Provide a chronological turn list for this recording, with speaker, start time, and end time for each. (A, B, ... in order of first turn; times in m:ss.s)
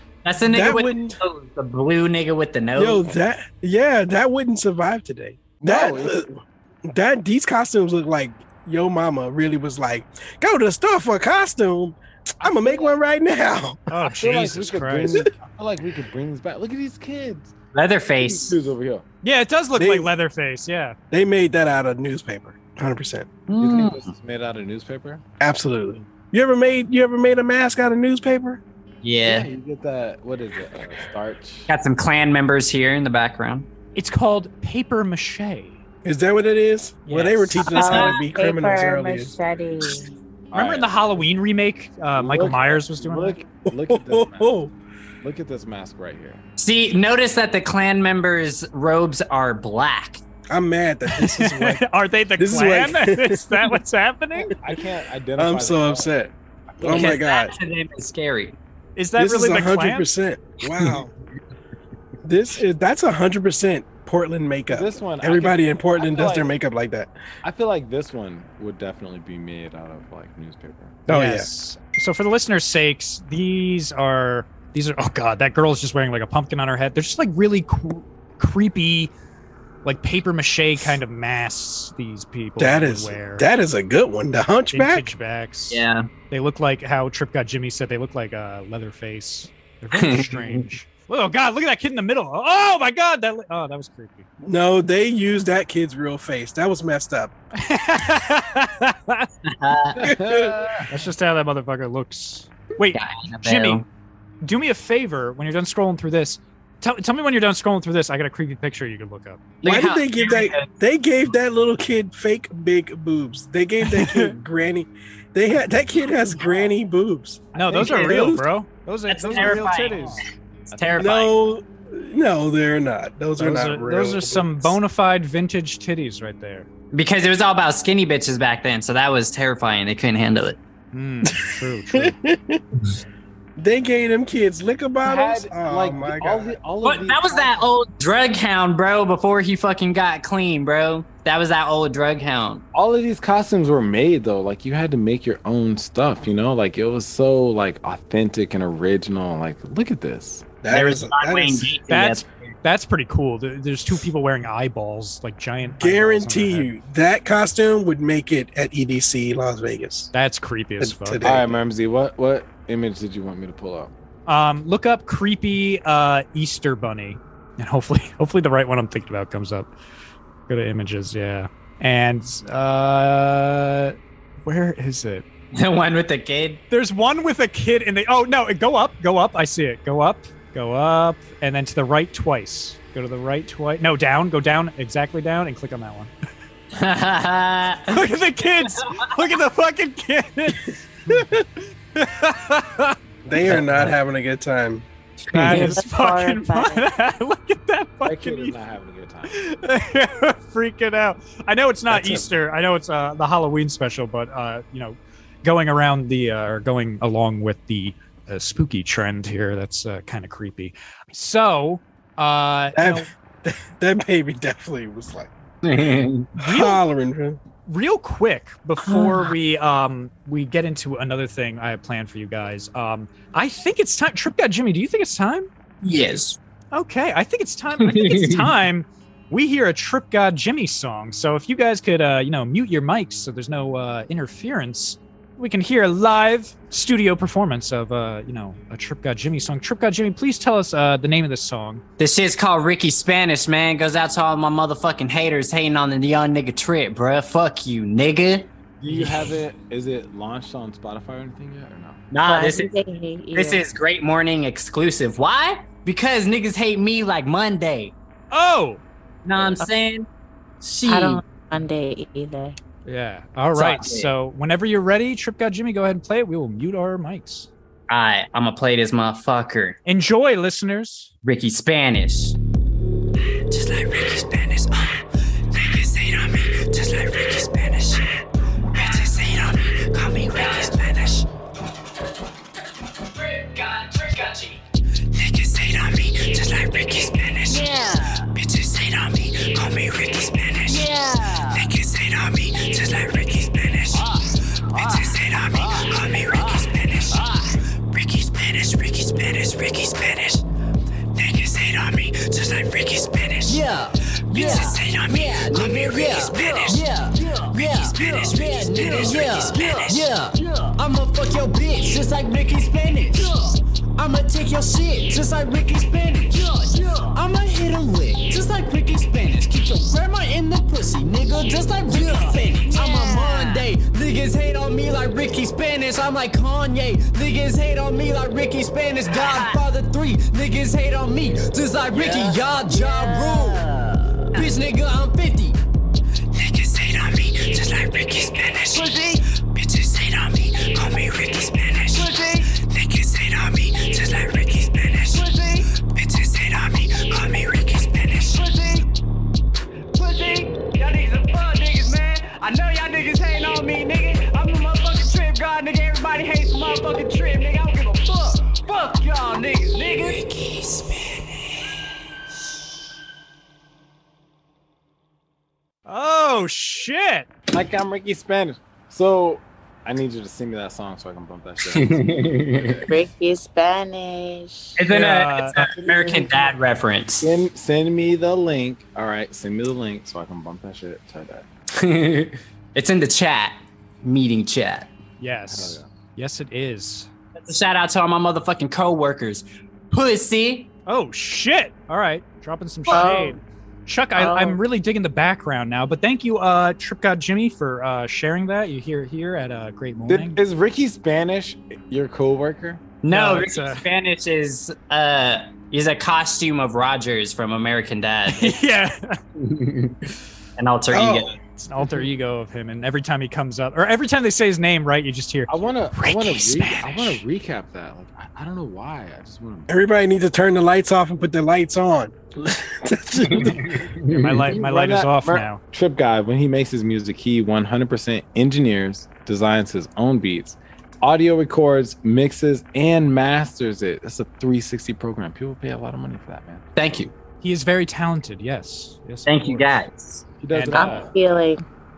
0:00.2-0:03.0 A
0:00.4-0:01.2 B
0:02.8-0:13.8 B
0:05.6-0:06.2 C
0:13.9-0:15.2 D
0:14.1-0:17.6 C
0:17.7-0:18.6 A
0:18.2-0:19.0 C
0:19.2-0:21.0 D
0:19.8-0:20.1 B
0:21.1-0:23.3 B
0:23.5-0:24.1 A
0:23.6-0:25.2 C
0:25.4-0:28.6 B
0:29.0-0:29.5 A
0:29.2-0:31.7 C
0:31.7-0:33.7 A
0:34.0-0:35.8 D
0:36.0-0:39.3 B
0:37.1-0:37.7 D
0:37.7-0:38.2 A
0:37.7-0:40.1 E
0:40.5-0:41.0 C
0:40.5-0:43.4 D
0:42.2-0:44.5 C
0:43.7-0:44.7 B
0:45.2-0:46.4 C
0:46.6-0:50.2 A
0:50.5-0:51.8 B
0:51.1-0:54.5 D
0:52.4-0:53.8 B
0:54.6-0:56.1 C
0:55.4-0:57.5 B
0:56.8-0:57.2 C
0:56.9-0:58.6 A
0:59.0-1:00.1 D
0:59.2-1:01.1 B
1:02.2-1:07.1 B
1:04.7-1:06.5 C
1:07.4-1:11.0 C
1:11.1-1:11.5 B
1:11.1-1:19.1 D
1:19.8-1:23.5 D
1:22.6-1:25.1 B
1:24.7-1:34.3 D
1:25.7-1:26.1 A
1:29.9-1:30.6 A
1:34.4-1:37.3 B
1:37.6-1:39.3 D
1:39.5-1:40.0 A
1:40.0-1:40.9 C
1:40.0-1:40.6 B
1:40.9-1:43.8 D
1:42.9-1:43.8 A
1:44.4-1:49.4 D
1:49.6-1:50.7 A
1:49.6-1:58.4 B
1:54.0-1:54.3 D
1:57.6-2:01.1 D
1:59.1-2:00.2 A
1:59.3-1:59.7 B
2:00.7-2:01.3 A
2:01.0-2:04.8 B
2:03.4-2:06.7 D
2:06.9-2:10.6 A
2:10.9-2:12.2 D
2:11.5-2:12.6 B
2:13.6-2:16.6 B
2:15.0-2:17.7 C
2:16.8-2:22.6 A
2:22.7-2:30.5 C
2:30.6-2:31.7 B
2:30.7-2:32.5 A
2:31.9-2:36.7 D
2:35.8-2:40.1 B
2:40.1-2:41.2 D
2:40.8-2:41.5 B
2:41.2-2:43.9 C
2:44.3-2:49.7 D
2:50.5-2:55.2 D
2:55.5-2:56.6 A
2:56.7-3:06.1 D
3:06.7-3:08.0 A
3:07.9-3:11.2 D
3:12.0-3:13.0 D
3:13.2-3:14.9 B
3:13.5-3:13.9 C
3:15.3-3:18.6 D
3:15.3-3:15.7 A
3:15.5-3:16.9 E
3:18.0-3:19.4 C
3:19.3-3:33.1 D
3:21.9-3:22.2 B
3:32.8-3:35.3 B
3:35.6-3:36.3 A
3:36.4-3:36.8 D
3:36.4-3:37.4 B
3:37.7-3:45.5 D
3:38.9-3:39.4 E
3:45.8-3:46.4 A
3:46.7-4:01.8 D
3:47.8-3:48.5 A
4:02.0-4:09.3 A
4:08.8-4:12.0 C
4:12.1-4:12.7 A
4:12.2-4:13.6 E
4:13.3-4:18.0 A
4:18.3-4:18.8 D
4:19.2-4:20.1 A
4:20.6-4:21.2 A
4:20.9-4:22.6 E
4:22.9-4:27.5 D
4:23.6-4:24.1 A
4:27.9-4:29.8 A
4:29.9-4:31.1 D
4:31.2-4:32.4 A
4:38.7-4:39.1 A
4:38.8-4:39.2 F
4:40.2-4:40.8 A
4:40.3-4:41.2 F
4:46.5-4:47.0 G
4:47.4-4:48.4 F
4:48.6-4:50.2 G
4:50.6-4:50.9 A
4:50.6-4:51.8 F
4:51.8-4:53.1 G
4:53.9-4:57.6 F
5:03.4-5:35.6 F
5:04.3-5:06.8 A
5:07.7-5:10.1 A
5:22.8-5:23.3 E
5:29.1-5:29.6 A
5:38.7-5:39.2 F
5:41.8-5:42.6 F
5:43.8-5:45.8 F
5:48.2-5:48.9 F
5:50.0-6:00.3 F
6:05.9-6:07.3 D
6:07.5-6:12.9 C
6:12.2-6:12.5 A
6:12.9-6:14.7 E
6:14.8-6:17.3 A
6:14.9-6:15.6 D
6:15.6-6:16.5 C
6:17.2-6:21.5 C
6:21.8-6:24.9 A
6:25.2-6:27.1 D
6:25.5-6:25.9 C
6:27.4-6:30.7 A
6:30.9-6:40.4 D
6:32.9-6:33.2 A
6:32.9-6:33.4 E
6:34.2-6:34.6 E
6:40.1-6:42.8 C
6:43.0-6:48.6 A
6:43.1-6:43.8 D
6:48.3-6:49.2 D
6:49.5-6:49.9 A
6:50.6-6:51.4 A
6:50.9-6:51.4 B
6:51.6-6:57.2 D
6:55.5-6:59.7 C
6:59.7-7:03.8 B
7:03.3-7:16.7 C
7:04.1-7:05.6 D
7:16.8-7:17.1 A
7:17.4-7:19.8 D
7:19.3-7:20.2 A
7:20.4-7:21.2 C
7:20.5-7:21.1 D
7:20.7-7:21.6 E